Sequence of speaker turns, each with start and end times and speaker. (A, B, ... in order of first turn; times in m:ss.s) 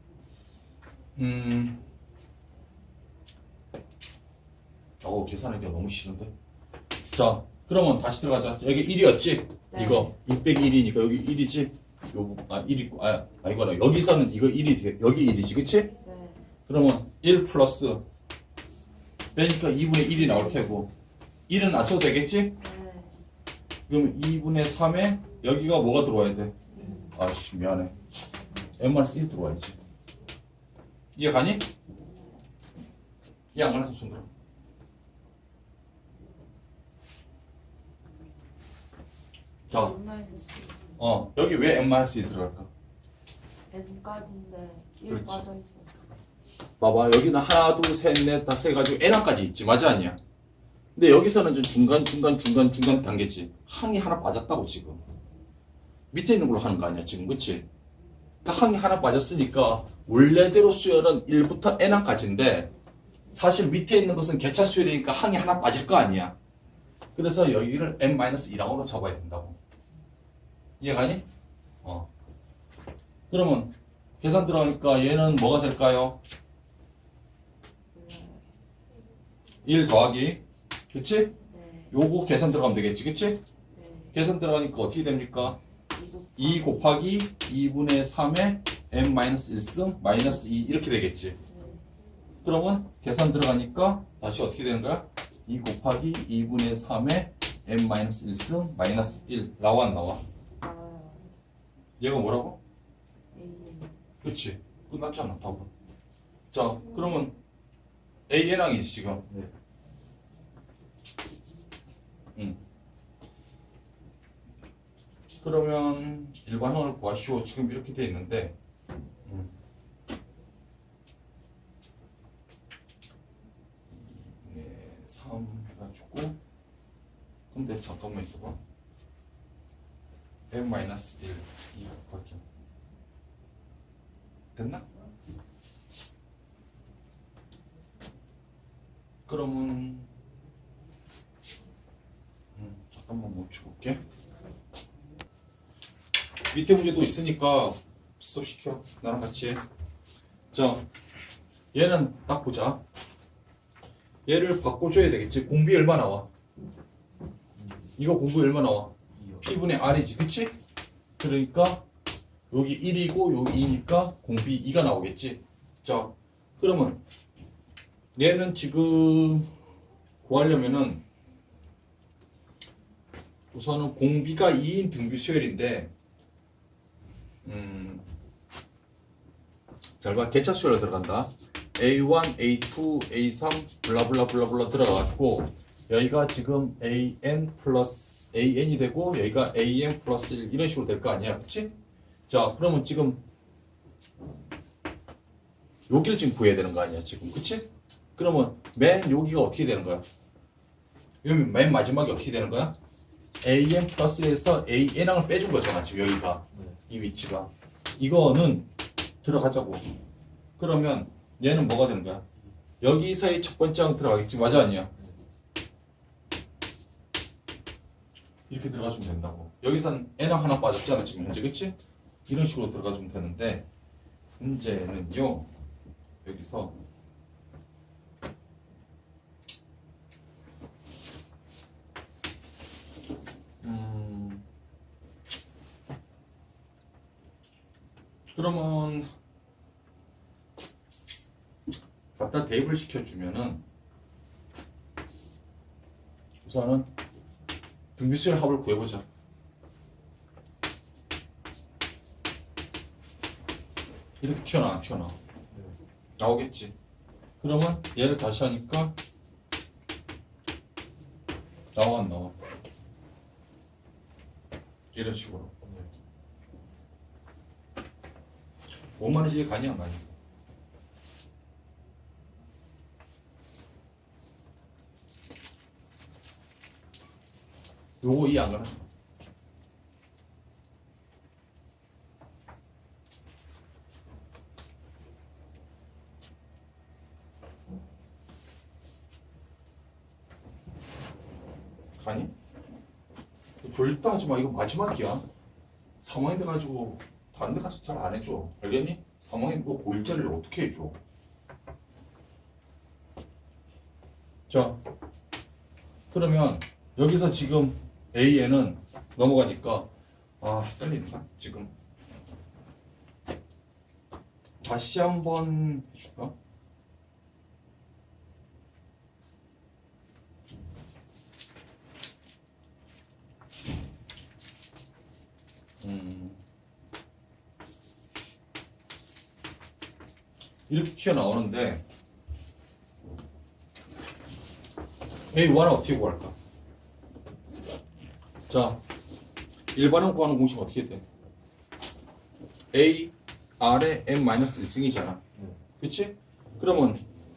0:01.2-0:01.8 A
0:05.0-0:06.3 A
0:07.1-0:15.9 A
0:09.7-0:10.1 B
0:16.0-0:16.5 B
0:16.7-0:18.0 A
0:19.3-0:20.9 A
0:21.5-0:22.6 A
0:22.6-0:23.2 B
0:23.9-0:26.6 A
0:26.7-0:27.2 B
0:27.1-0:27.9 A
0:28.8-0:29.8 A
0:31.1-0:31.7 A
0:33.5-0:34.3 A
0:39.7-0:40.9 B
0:41.0-0:42.7 A
0:43.7-0:46.0 B
0:45.1-0:45.4 A
0:46.8-0:50.2 A
0:50.9-0:55.0 A
0:56.1-0:57.6 A
0:58.4-1:02.7 A
1:03.3-1:06.3 A
1:07.1-1:09.6 A
1:10.8-1:11.3 A
1:11.8-1:12.1 A
1:13.3-1:16.2 A
1:17.9-1:18.4 B
1:19.6-1:21.3 A
1:21.5-1:21.9 B
1:21.9-1:23.4 A
1:23.7-1:24.2 B
1:24.1-1:25.6 A
1:25.9-1:26.9 B
1:26.4-1:31.4 A
1:31.5-1:31.8 B
1:32.4-1:40.2 A
1:40.6-1:41.3 B
1:42.0-1:42.6 A
1:43.3-1:44.0 B
1:44.2-1:45.7 A
1:46.5-1:47.4 A
1:48.3-1:49.2 A
1:55.4-1:58.5 A
1:59.2-1:59.5 A
2:03.9-2:06.4 A
2:07.5-2:08.6 A
2:10.5-2:12.4 A
2:14.5-2:14.8 A
2:19.3-2:20.1 A
2:22.6-2:24.0 A
2:26.5-2:29.6 A
2:30.5-2:30.8 A
2:31.7-2:32.8 A
2:34.3-2:36.3 A
2:37.6-2:37.9 C
2:38.0-2:40.6 A
2:39.1-2:39.4 C
2:41.2-2:41.8 A
2:42.5-2:47.0 A
2:48.2-2:49.5 A
2:50.2-2:51.0 A
2:53.5-2:55.9 A
2:57.4-2:58.0 A
3:00.0-3:11.7 A
3:12.3-3:13.2 A
3:15.9-3:20.0 A
3:21.2-3:22.8 A
3:23.4-3:28.7 A
3:26.5-3:26.8 C
3:29.2-3:29.9 A
3:30.6-3:32.2 A
3:32.8-3:34.9 A
3:38.5-3:43.7 A
3:44.4-3:45.5 A
3:46.2-3:46.7 A
3:53.6-3:54.4 A
3:58.3-3:59.1 A
4:02.2-4:03.6 A
4:06.4-4:06.9 A
4:08.0-4:09.0 A
4:14.2-4:15.2 A
4:15.5-4:15.8 C
4:16.2-4:16.7 A
4:17.4-4:19.0 A
4:21.7-4:22.3 A
4:24.9-4:25.5 A
4:25.6-4:25.9 C
4:29.0-4:30.1 A
4:38.0-4:38.8 A
4:52.0-4:52.3 A
4:53.6-4:55.2 A
4:56.0-5:01.0 A
5:04.5-5:04.8 A
5:06.1-5:09.9 A
5:10.4-5:11.7 A
5:14.6-5:16.3 A
5:25.8-5:26.4 A
5:30.7-5:31.8 A
5:35.3-5:36.3 A
5:38.5-5:38.8 A
5:39.7-5:41.0 A
5:42.7-5:45.2 A
5:45.3-5:45.6 C
5:45.8-5:47.1 A